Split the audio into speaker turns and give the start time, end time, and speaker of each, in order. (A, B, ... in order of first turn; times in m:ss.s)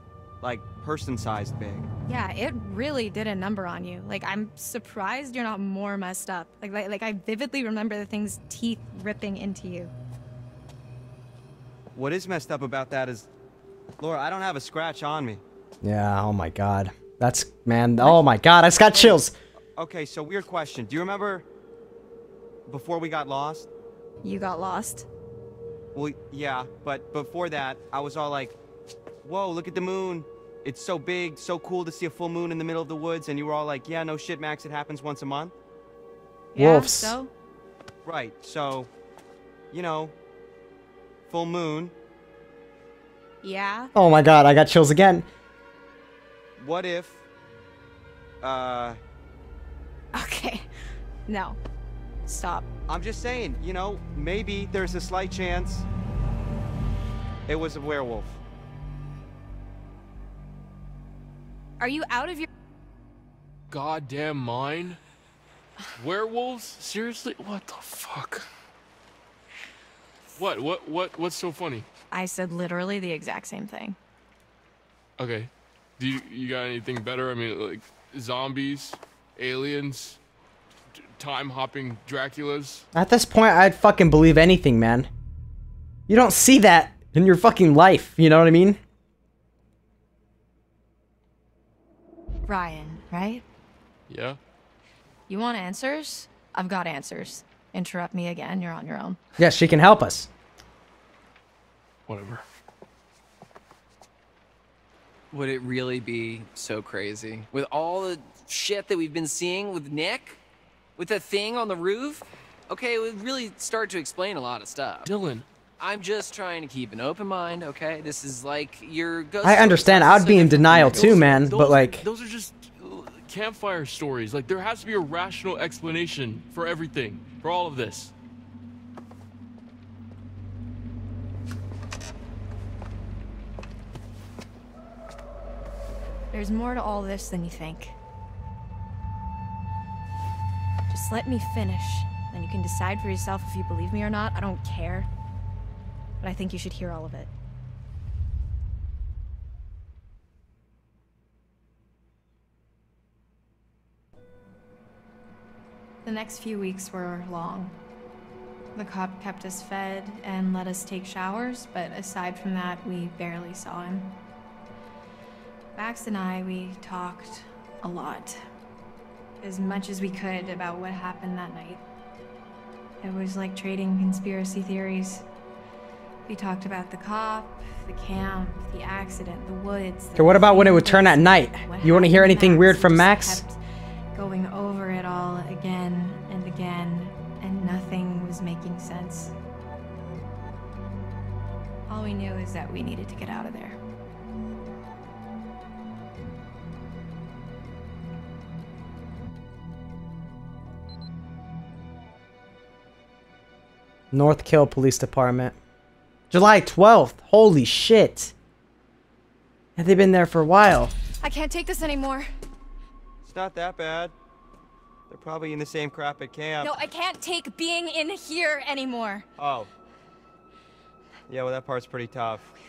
0:00.4-0:01.9 A
0:02.1-0:09.9 B
0:11.9-0:13.3 A
0:14.0-0:15.4 A
0:15.8-0:19.3 C
0:19.8-0:21.4 A
0:22.7-0:23.7 A
0:24.2-0:25.1 B
0:25.9-0:28.6 A
0:29.2-0:35.5 A
0:36.5-0:37.3 B
0:36.6-0:37.2 C
0:38.0-0:38.9 A
0:39.7-0:40.1 A
0:41.3-0:41.9 A
0:43.4-0:43.9 B
0:43.9-0:45.2 C
0:46.6-0:47.2 A
0:48.4-0:49.0 A
0:50.1-0:50.7 B
0:51.3-0:51.6 B
0:52.3-0:52.6 B
0:52.9-0:55.8 A
0:57.5-0:58.4 A
1:01.8-1:02.5 B
1:03.7-1:05.0 D
1:06.0-1:08.5 D
1:10.4-1:11.8 D
1:12.1-1:14.0 B
1:15.2-1:20.2 D
1:21.0-1:22.8 D
1:22.9-1:25.1 C
1:26.1-1:28.8 C
1:32.5-1:33.4 B
1:34.1-1:34.4 D
1:35.3-1:39.2 B
1:39.4-1:40.3 C
1:42.1-1:42.4 D
1:45.3-1:50.4 E
1:51.0-1:55.1 E
1:55.0-1:55.4 D
1:55.8-2:01.4 E
1:59.4-2:02.0 C
2:00.6-2:08.1 D
2:16.3-2:17.9 B
2:20.9-2:25.1 B
2:26.2-2:27.3 B
2:36.0-2:37.7 B
2:38.7-2:44.2 B
2:45.8-2:48.4 B
2:49.4-2:51.8 B
2:53.0-2:55.2 B
2:56.3-3:03.6 B
3:00.2-3:03.4 C
3:04.1-3:09.3 B
3:11.9-3:13.8 B
3:24.1-3:25.6 C
3:26.3-3:28.3 C
3:29.8-3:30.9 C
3:31.2-3:32.3 B
3:33.2-3:34.1 A
3:35.1-3:36.8 A
3:36.6-3:39.2 B
3:39.4-3:39.7 A
3:41.3-3:42.4 A